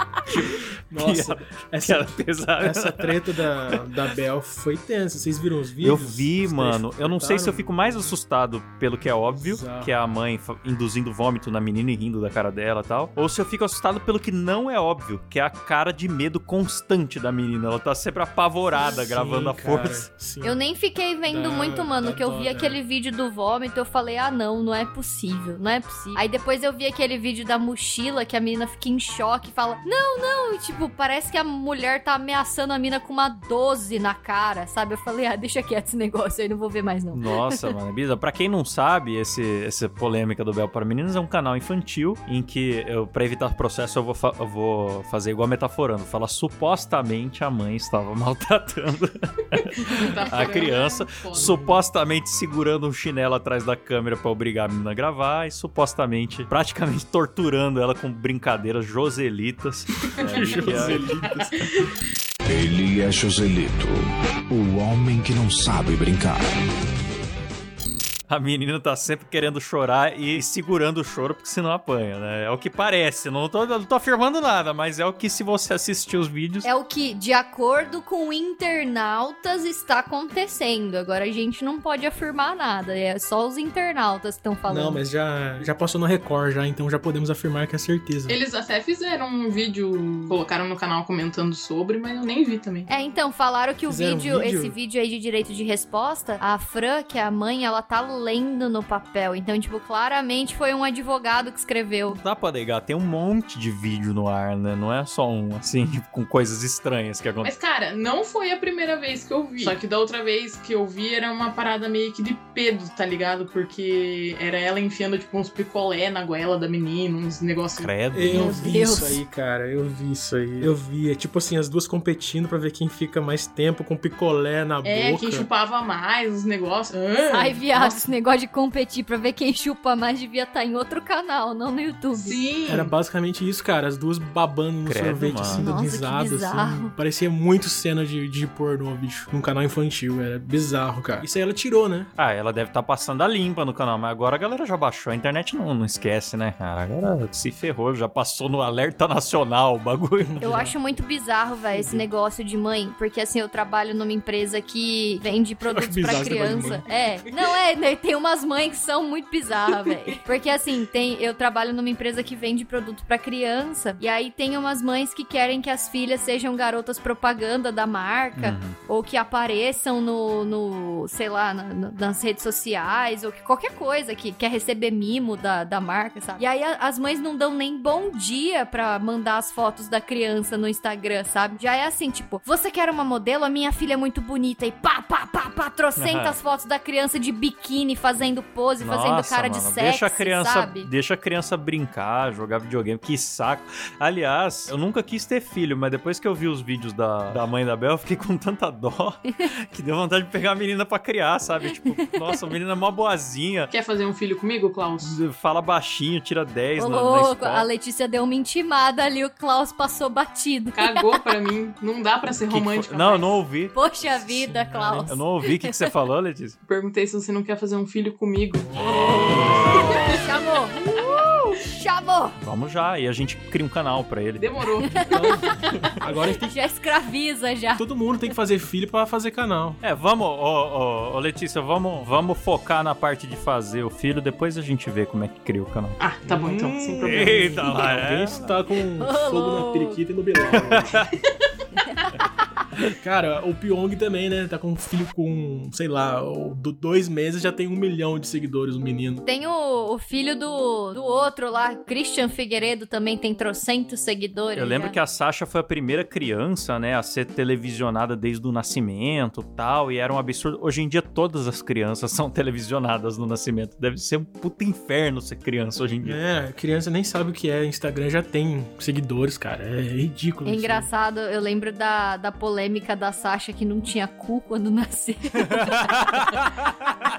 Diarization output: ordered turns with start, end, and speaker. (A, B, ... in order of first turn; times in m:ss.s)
0:00.3-0:07.7 A
0:01.0-0:03.8 B
0:05.8-0:20.1 B
0:09.3-0:09.9 A
0:18.8-0:20.6 A
0:20.4-0:37.6 C
0:21.3-0:22.8 A
0:37.1-1:01.1 B
0:49.8-0:51.6 D
0:51.3-0:51.7 A
1:00.1-1:01.9 D
1:00.3-1:01.6 A
1:02.4-1:06.5 E
1:08.3-1:16.7 B
1:16.6-1:25.0 C
1:24.7-1:28.4 A
1:28.3-1:32.9 D
1:32.9-1:42.2 C
1:33.9-1:34.7 A
1:42.1-1:47.5 B
1:47.4-1:58.0 D
1:57.8-1:58.6 B
1:58.1-2:05.5 A
1:58.3-1:59.2 C
2:04.8-2:08.0 D
2:07.3-2:12.4 C
2:12.1-2:12.9 D
2:12.7-2:22.1 A
2:14.8-2:15.7 B
2:15.5-2:16.9 C
2:22.2-2:30.4 B
2:30.2-2:30.7 A
2:30.4-3:10.9 C
2:31.7-2:32.0 A
2:35.6-2:36.9 A
2:48.4-2:48.8 B
3:06.0-3:06.4 B
3:08.8-3:23.7 B
3:23.7-3:25.2 D
3:25.0-3:27.7 B
3:26.8-3:31.2 C
3:30.7-3:33.4 D
3:32.5-3:33.7 B
3:33.7-3:35.8 C
3:34.2-3:35.2 A
3:35.1-3:36.6 B
3:36.6-3:38.8 D
3:38.9-3:42.4 C
3:39.1-3:39.8 A
3:39.3-3:40.0 B
3:39.8-3:40.2 D
3:42.4-3:44.5 B
3:44.4-3:45.1 D
3:44.8-3:45.4 C
3:45.0-3:46.6 A
3:46.4-3:47.8 C
3:47.8-3:49.8 A
3:49.8-3:56.0 B
3:56.0-3:57.6 D
3:56.2-4:01.1 A
3:57.0-3:58.6 B
3:59.0-4:00.0 C
4:00.6-4:01.1 B
4:01.8-4:02.2 C
4:03.0-4:09.2 A
4:09.2-4:15.0 C
4:14.5-4:26.2 B
4:26.0-4:30.9 A
4:30.4-4:36.0 C
4:35.4-4:37.1 B